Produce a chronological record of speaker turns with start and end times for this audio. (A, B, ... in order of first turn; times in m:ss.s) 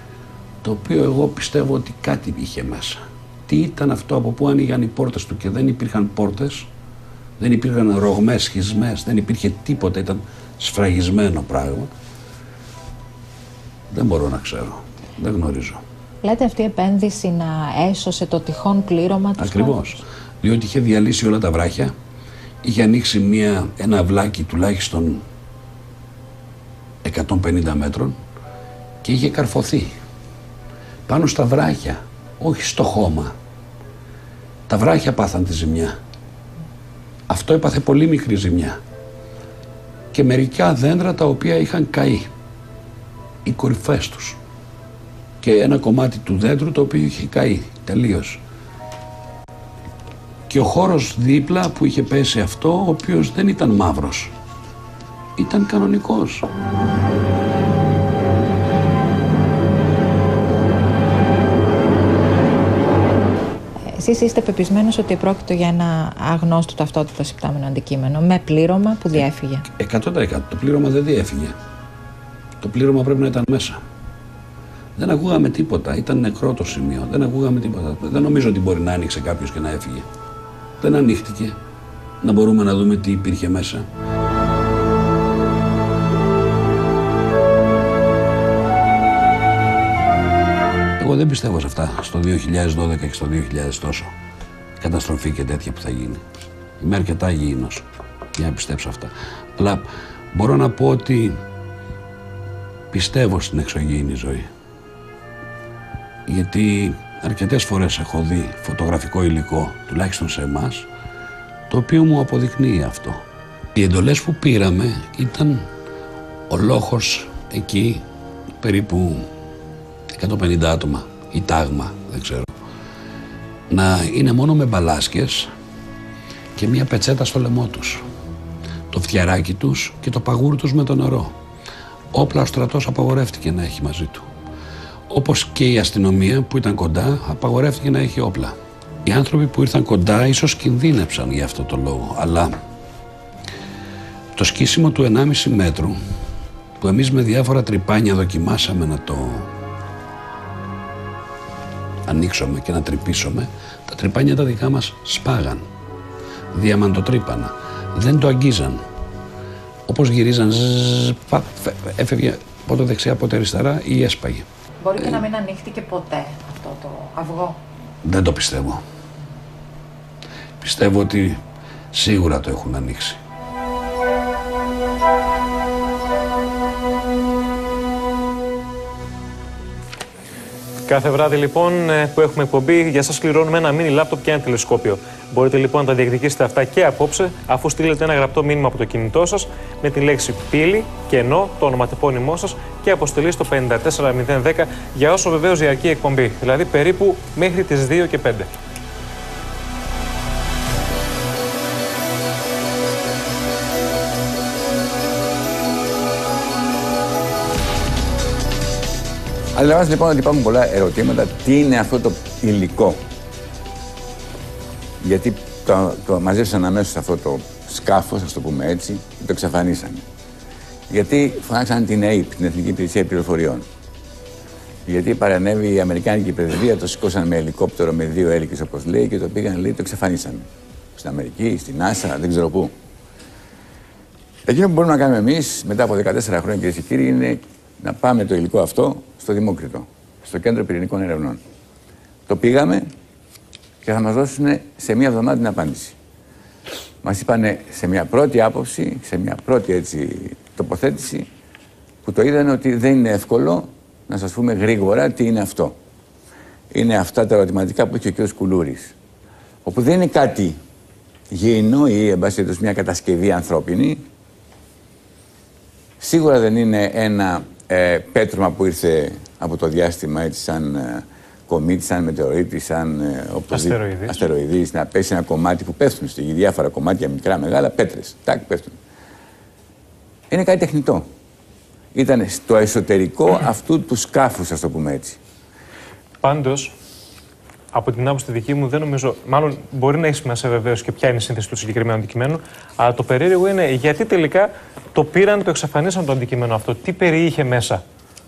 0:00.6-0:06.7 A
0:07.4-0:11.9 A
0:13.9-0:15.8 A
0:16.2-0:19.9 B
0:19.4-0:21.9 A
0:22.6-0:25.2 A
0:27.0-0:28.2 A
0:29.0-0:29.9 A
0:31.1-0:33.3 A
0:34.7-0:36.0 A
0:37.3-0:38.8 A
0:40.1-0:42.3 A
0:43.4-0:44.4 A
0:45.4-0:48.4 A
0:50.5-0:54.3 A
0:55.4-0:56.5 A
1:03.9-1:09.6 B
1:09.8-1:11.6 A
1:12.6-1:13.8 A
1:15.0-1:20.1 A
1:20.8-1:21.6 A
1:22.2-1:23.9 A
1:31.0-1:34.1 A
1:34.8-1:36.2 A
1:36.8-1:37.8 A
1:38.4-1:41.4 A
1:42.9-1:44.5 A
1:46.3-1:50.9 A
1:51.7-1:53.2 A
1:53.8-1:55.7 A
1:56.5-1:58.0 A
1:58.6-1:59.3 A
2:00.1-2:02.5 A
2:03.7-2:05.5 A
2:06.6-2:08.0 A
2:08.9-2:11.4 A
2:12.1-2:14.3 A
2:15.1-2:22.6 A
2:24.4-2:26.0 A
2:26.8-2:29.5 A
2:32.1-2:35.6 A
2:36.5-2:38.8 A
2:39.9-2:44.4 A
2:44.8-2:47.6 B
2:45.0-2:45.2 A
2:48.0-2:48.8 A
2:50.6-2:51.4 A
2:51.9-2:53.2 A
3:00.9-3:18.5 C
3:29.5-3:33.0 D
3:35.0-3:40.0 D
3:40.9-3:43.6 D
3:44.9-3:50.4 D
3:51.0-3:52.7 D
3:54.5-4:01.4 D
4:02.3-4:02.9 D
4:03.8-4:05.9 D
4:07.0-4:11.3 D
4:12.0-4:15.8 D
4:16.7-4:18.9 D
4:19.6-4:20.6 D
4:21.3-4:24.0 D
4:26.0-4:38.8 D
4:33.5-4:34.2 C
4:40.3-4:41.1 D
4:41.9-4:45.2 D
4:46.2-4:46.7 C
4:47.7-4:57.8 C